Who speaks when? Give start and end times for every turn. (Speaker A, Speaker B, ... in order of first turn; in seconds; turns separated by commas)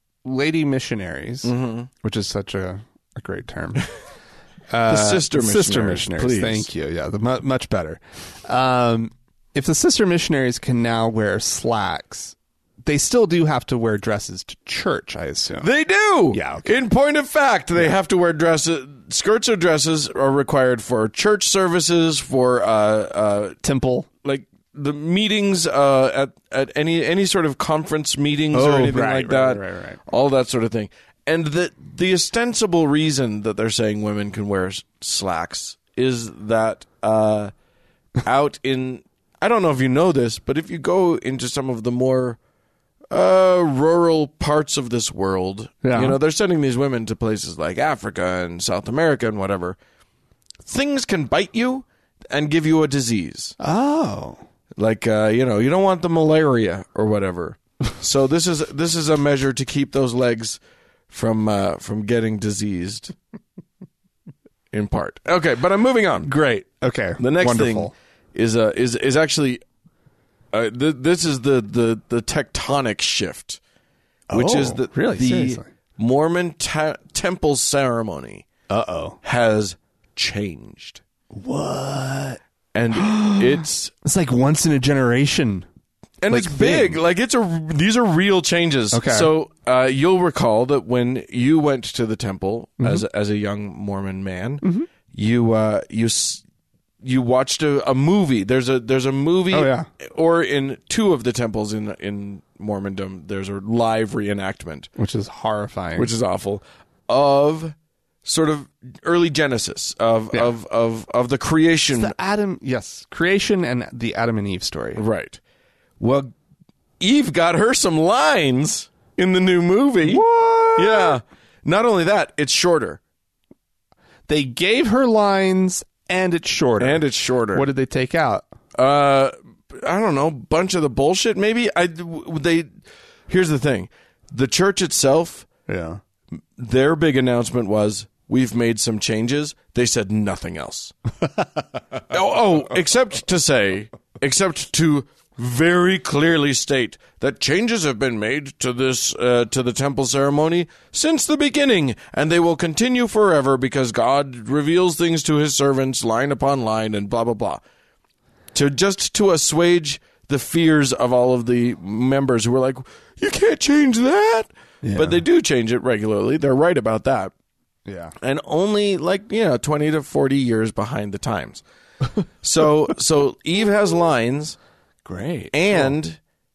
Speaker A: 0.2-3.9, Speaker B: 1.4-1.9, Speaker A: 4.7-15.7, Speaker B: 4.9-6.7, Speaker B: 15.6-23.6, Speaker A: 16.3-16.7, Speaker A: 23.6-24.1, Speaker B: 24.2-37.5, Speaker A: 28.5-30.0, Speaker B: 38.2-42.4, Speaker B: 43.1-49.8, Speaker A: 45.8-46.2, Speaker B: 50.6-53.6, Speaker A: 53.6-54.4, Speaker B: 54.8-60.6, Speaker B: 61.1-63.1, Speaker B: 64.7-66.3, Speaker A: 66.2-67.9, Speaker B: 67.2-69.6, Speaker B: 70.5-73.6, Speaker A: 74.3-75.7, Speaker B: 74.3-78.5, Speaker A: 78.7-79.2, Speaker B: 79.2-81.0, Speaker A: 81.3-82.4, Speaker B: 82.7-83.9, Speaker A: 82.9-85.7, Speaker B: 86.2-96.4, Speaker A: 86.3-87.0, Speaker A: 88.9-89.3, Speaker A: 94.6-94.9, Speaker B: 97.0-104.9, Speaker A: 99.5-99.9, Speaker A: 105.0-106.1, Speaker B: 106.0-112.1, Speaker A: 111.9-115.0, Speaker B: 115.0-115.4, Speaker B: 116.0-116.3, Speaker B: 117.0-120.2, Speaker A: 120.0-121.2, Speaker B: 120.8-123.0, Speaker A: 124.3-128.5, Speaker B: 126.8-127.7, Speaker B: 128.8-132.7, Speaker B: 133.3-135.5, Speaker A: 135.7-136.0, Speaker B: 136.6-140.9, Speaker B: 142.1-157.6, Speaker B: 158.5-167.3, Speaker A: 164.8-165.2, Speaker A: 167.9-168.2, Speaker B: 168.2-171.6, Speaker B: 172.4-174.6, Speaker A: 175.1-176.0, Speaker B: 175.5-176.2